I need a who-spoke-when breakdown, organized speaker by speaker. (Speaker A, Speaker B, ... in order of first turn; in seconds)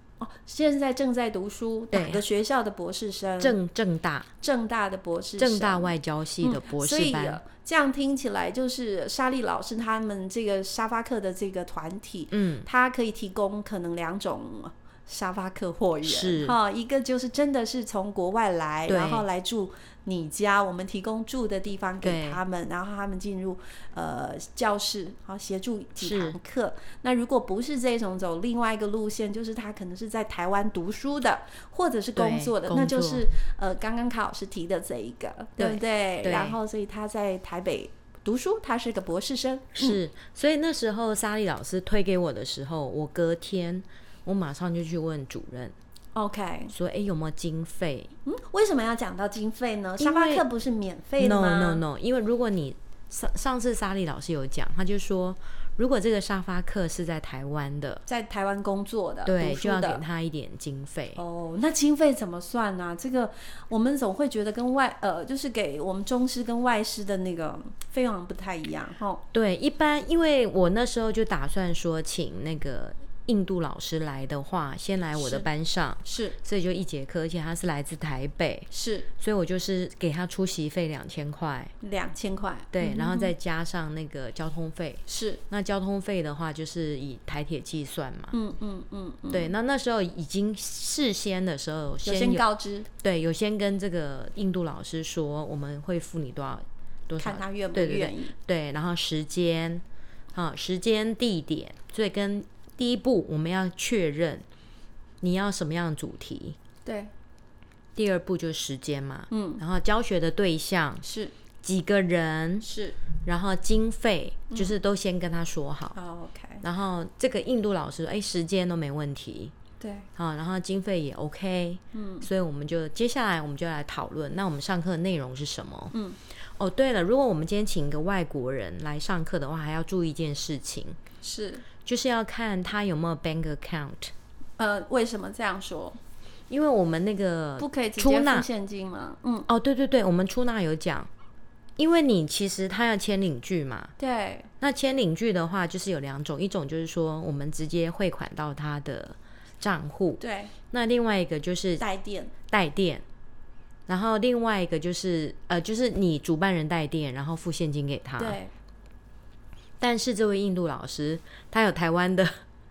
Speaker A: 0.2-3.6, 4.4-40.0, 46.1-46.7, 48.3-51.8, 58.1-60.0, 61.2-69.2, 75.2-75.5, 76.0-76.4, 78.7-79.1, 81.8-83.3, 85.1-85.4, 88.3-89.5, 92.0-92.9, 97.2-98.3, 106.8-107.1, 109.3-109.6, 111.0-111.3, 112.6-113.0, 116.0-116.6, 119.8-120.1, 121.9-122.3, 125.9-126.2, 131.2-131.7, 134.6-136.0, 137.6-139.5, 144.0-144.5, 150.2-150.5, 151.8-152.3, 158.2-158.5
Speaker B: 1.9-2.2, 3.4-4.3, 5.4-7.4, 12.3-12.7, 16.1-16.6, 18.9-19.2, 22.0-22.4, 26.0-26.4, 32.1-33.2, 35.6-36.6, 39.8-45.7, 46.7-48.1, 50.0-50.5, 51.2-58.0, 59.2-61.2, 69.3-78.7, 79.2-81.7, 82.7-88.3, 89.3-92.4, 93.0-104.5, 105.2-106.6, 108.0-111.0, 111.6-112.7, 113.2-116.0, 116.6-119.5, 120.2-125.9, 126.6-131.0, 131.8-134.1, 136.5-138.5, 139.5-141.1, 141.8-143.9, 144.6-151.8, 152.5-153.0, 153.9-158.4, 159.8-162.4